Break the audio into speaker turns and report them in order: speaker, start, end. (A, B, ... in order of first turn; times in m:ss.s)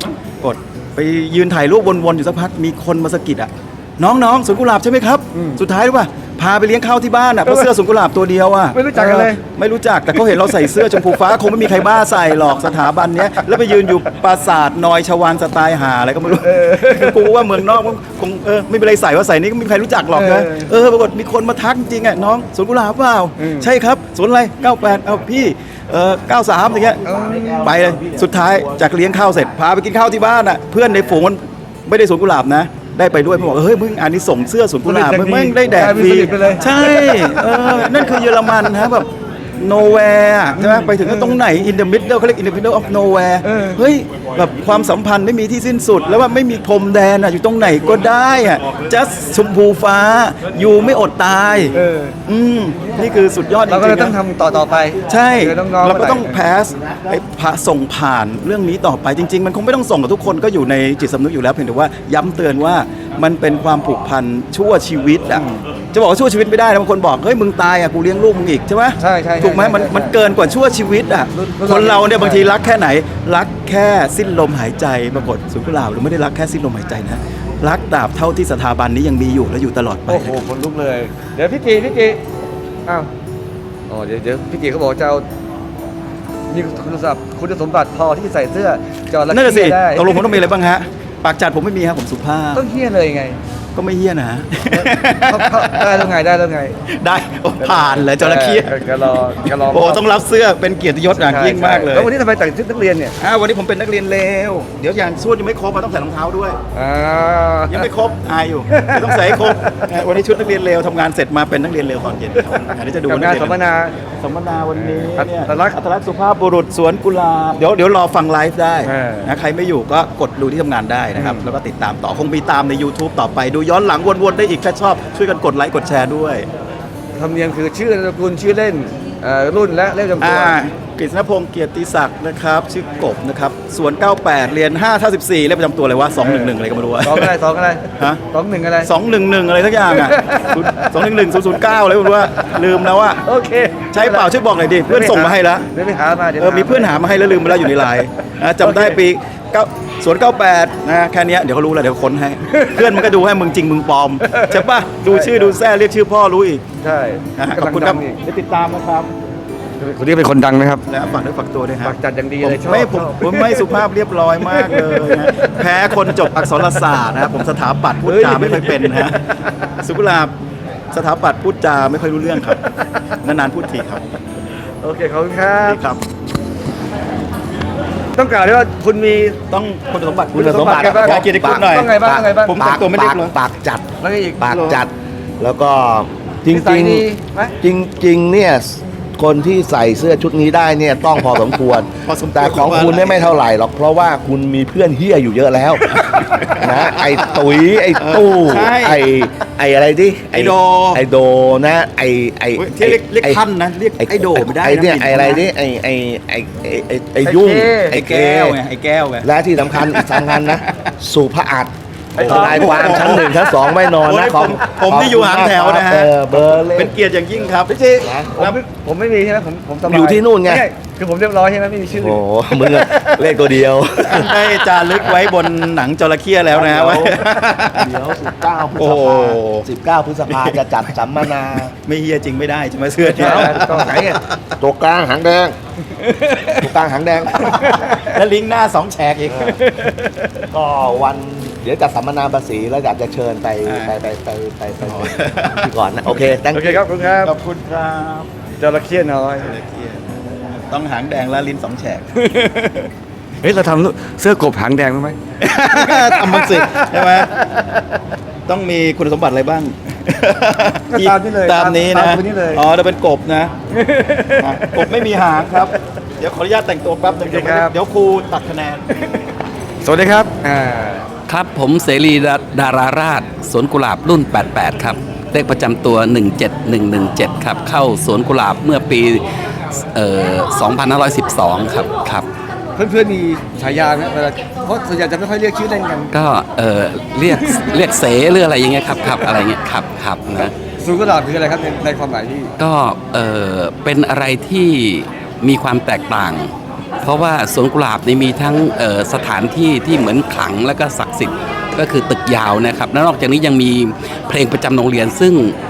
0:00.4-0:27.0 A
0:05.3-0:05.6 B
0:08.7-0:09.4 B
0:10.2-0:11.1 B
0:16.4-0:17.5 B
0:20.1-0:20.7 B
0:23.4-0:23.7 B
0:27.0-0:28.8 C
0:27.0-0:27.8 B
0:27.6-0:51.8 A
0:34.8-0:37.2 B
0:40.6-0:41.4 B
0:43.4-0:43.8 B
0:51.7-0:52.2 B
0:52.3-0:54.2 A
0:53.7-0:56.5 B
0:55.1-1:20.4 A
1:09.0-1:10.2 B
1:11.3-1:12.5 B
1:20.1-1:22.2 B
1:22.8-1:23.1 B
1:23.9-1:25.3 B
1:26.5-1:30.3 B
1:29.3-1:32.6 A
1:32.5-1:33.4 B
1:33.7-1:36.1 A
1:34.7-1:36.8 B
1:36.9-1:38.7 A
1:37.6-1:40.0 B
1:39.5-1:42.1 A
1:41.1-1:43.2 B
1:43.2-1:46.6 A
1:46.7-1:47.9 B
1:47.7-1:53.6 A
1:48.7-1:49.8 B
1:53.1-1:53.9 B
1:54.1-2:06.5 A
1:54.7-1:55.8 B
1:58.8-1:59.3 B
2:01.2-2:01.5 B
2:07.2-2:10.6 B
2:10.2-2:17.4 A
2:16.2-2:18.9 B
2:18.8-2:23.2 A
2:19.9-2:21.0 B
2:23.2-2:27.2 B
2:23.9-2:25.7 A
2:26.4-2:36.6 A
2:28.6-2:28.9 B
2:32.5-2:33.0 B
2:34.2-2:35.5 B
2:36.8-2:38.2 B
2:37.4-2:39.1 A
2:39.8-2:40.8 B
2:40.9-2:49.2 A
2:41.8-2:43.8 B
2:44.4-2:45.5 B
2:48.0-2:49.1 B
2:49.8-2:50.3 A
2:50.9-2:52.6 A
2:53.2-2:54.0 A
2:54.8-2:55.8 B
2:55.6-2:56.0 A
2:58.2-2:59.4 B
2:59.5-3:03.3 A
3:00.3-3:07.1 C
3:00.3-3:02.6 B
3:04.0-3:04.8 B
3:06.5-3:07.6 B
3:07.6-3:16.0 C
3:12.1-3:13.3 A
3:15.9-3:17.1 A
3:16.6-3:23.4 C
3:18.0-3:19.1 A
3:20.3-3:21.0 A
3:22.6-3:25.4 A
3:24.0-3:28.6 C
3:27.2-3:28.0 B
3:27.9-3:30.5 A
3:29.2-3:37.0 C
3:32.2-3:37.7 A
3:32.2-3:33.3 B
3:37.7-3:43.4 B
3:38.0-3:38.3 C
3:39.8-3:40.6 C
3:41.9-3:44.6 C
3:44.0-3:47.9 A
3:46.5-3:51.7 C
3:48.8-3:49.7 A
3:50.3-3:50.6 A
3:51.8-3:54.0 A
3:53.0-3:54.2 B
3:53.5-3:55.6 C
3:55.9-3:56.6 B
3:56.5-3:57.6 C
3:57.4-3:58.1 B
3:57.4-3:59.7 A
3:59.4-4:00.2 B
4:00.5-4:06.8 C
4:03.6-4:03.9 A
4:04.8-4:05.7 A
4:06.5-4:07.3 B
4:07.1-4:08.3 A
4:08.6-4:09.5 B
4:09.4-4:10.2 A
4:10.7-4:12.1 A
4:12.2-4:12.9 B
4:13.4-4:15.2 B
4:15.4-4:17.4 A
4:15.7-4:17.8 B
4:18.5-4:23.5 A
4:20.9-4:22.6 B
4:23.7-4:25.1 B
4:24.4-4:28.8 A
4:27.2-4:27.7 B
4:29.8-4:31.0 B
4:31.3-4:42.2 D
4:42.8-4:46.1 B
4:46.1-4:50.5 D
4:50.8-4:52.5 B
4:52.6-5:05.5 D